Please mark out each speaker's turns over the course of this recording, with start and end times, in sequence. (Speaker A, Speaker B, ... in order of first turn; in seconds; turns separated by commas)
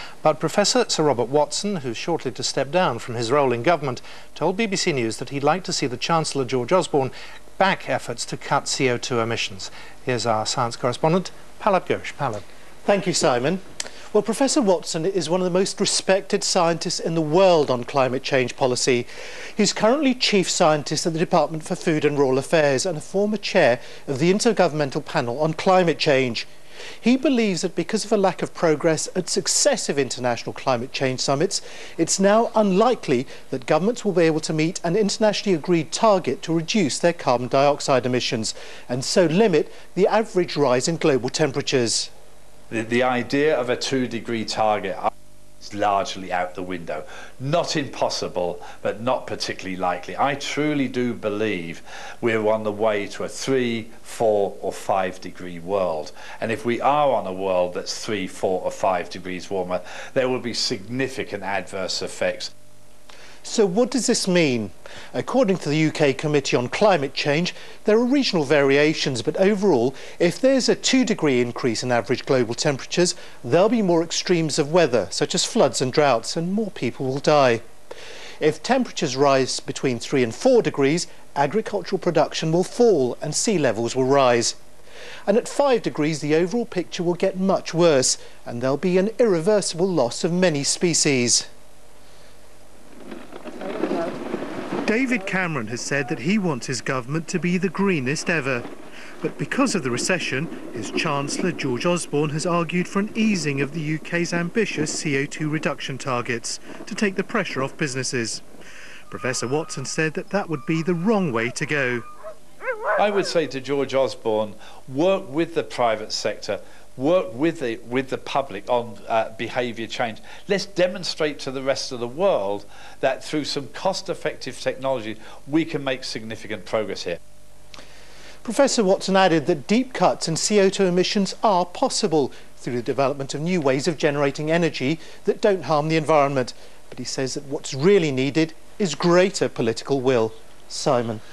Speaker A: 0.2-12.4, Speaker B: 12.8-26.5, Speaker B: 27.0-42.1, Speaker C: 42.7-45.1, Speaker C: 45.6-62.5, Speaker B: 63.4-77.6, Speaker B: 78.4-84.6, Speaker B: 85.3-91.5, Speaker B: 94.9-98.7, Speaker B: 99.2-108.4, Speaker B: 109.1-112.0, Speaker C: 113.0-127.2, Speaker B: 128.4-141.2